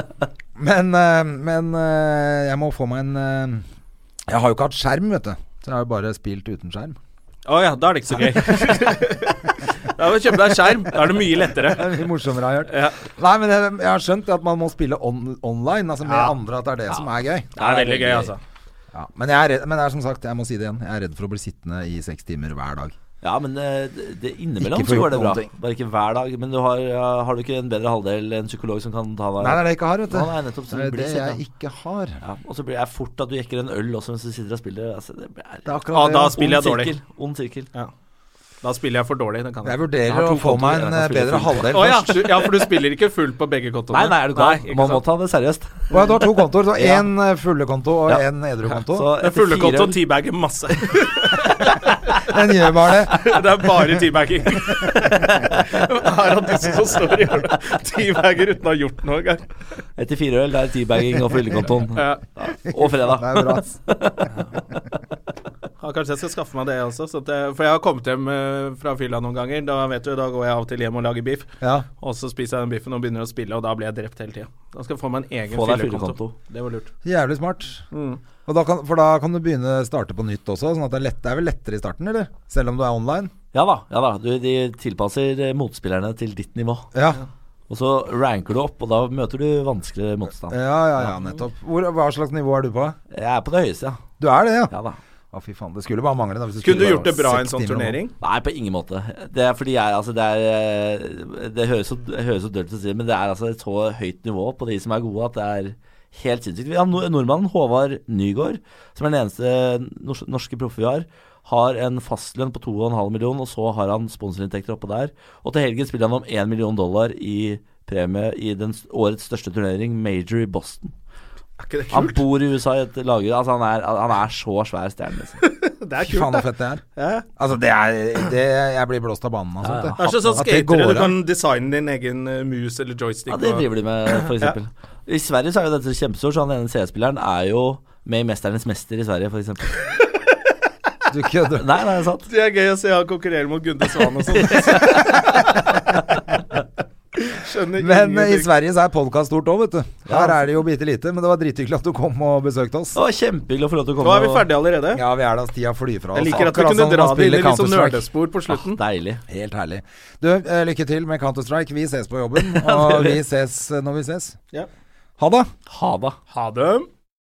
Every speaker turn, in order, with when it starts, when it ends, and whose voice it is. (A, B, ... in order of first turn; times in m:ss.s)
0:00.6-0:03.6 A
0:04.3-0:07.0 A
0:07.5-0:11.9 B
0:11.7-0:17.5 A
0:12.7-0:13.0 B
0:16.1-0:16.3 B
0:17.6-0:18.3 C
0:17.6-0:18.4 B
0:18.9-0:23.0 A
0:23.2-0:31.4 C
0:24.6-0:25.5 A
0:29.4-0:32.2 A
0:32.2-0:37.7 C
0:35.7-0:36.4 A
0:35.9-0:37.0 B
0:38.6-0:39.8 B
0:39.6-0:42.2 A
0:40.1-0:42.3 C
0:41.7-0:45.0 B
0:43.9-0:46.1 C
0:45.9-0:49.1 A
0:46.7-0:47.1 C
0:48.9-0:50.0 C
0:49.2-0:52.1 B
0:50.8-0:51.2 C
0:52.2-0:53.3 A
0:53.1-0:59.4 B
0:54.9-0:55.6 C
1:00.0-1:04.3 C
1:01.9-1:02.2 B
1:02.6-1:03.8 A
1:05.8-1:16.9 B
1:11.6-1:11.9 A
1:15.5-1:16.4 C
1:17.0-1:17.8 A
1:17.9-1:18.2 B
1:18.5-1:23.3 A
1:23.5-1:26.9 C
1:26.9-1:27.2 A
1:27.7-1:30.6 C
1:30.5-1:33.0 A
1:33.1-1:34.0 C
1:34.2-1:34.7 A
1:34.7-1:35.0 C
1:35.3-1:38.0 A
1:36.6-1:38.1 B
1:38.2-2:00.9 C
2:01.6-2:02.2 B
2:01.9-2:05.4 C
2:05.4-2:07.3 B
2:06.0-2:06.8 A
2:07.4-2:11.2 A
2:09.6-2:10.5 C
2:10.0-2:14.6 B
2:13.3-2:19.8 C
2:21.1-2:21.8 A
2:21.6-2:22.3 C
2:22.3-2:25.5 B
2:24.4-2:26.0 C
2:27.2-2:28.5 B
2:27.8-2:33.0 A
2:30.1-2:30.4 C
2:33.0-2:34.5 C
2:34.0-2:35.0 B
2:35.0-2:38.1 A
2:36.1-2:38.8 B
2:38.5-2:39.2 C
2:39.3-2:44.4 A
2:42.4-2:43.2 C
2:45.2-2:45.5 A
2:45.7-2:46.2 C
2:46.3-2:46.9 B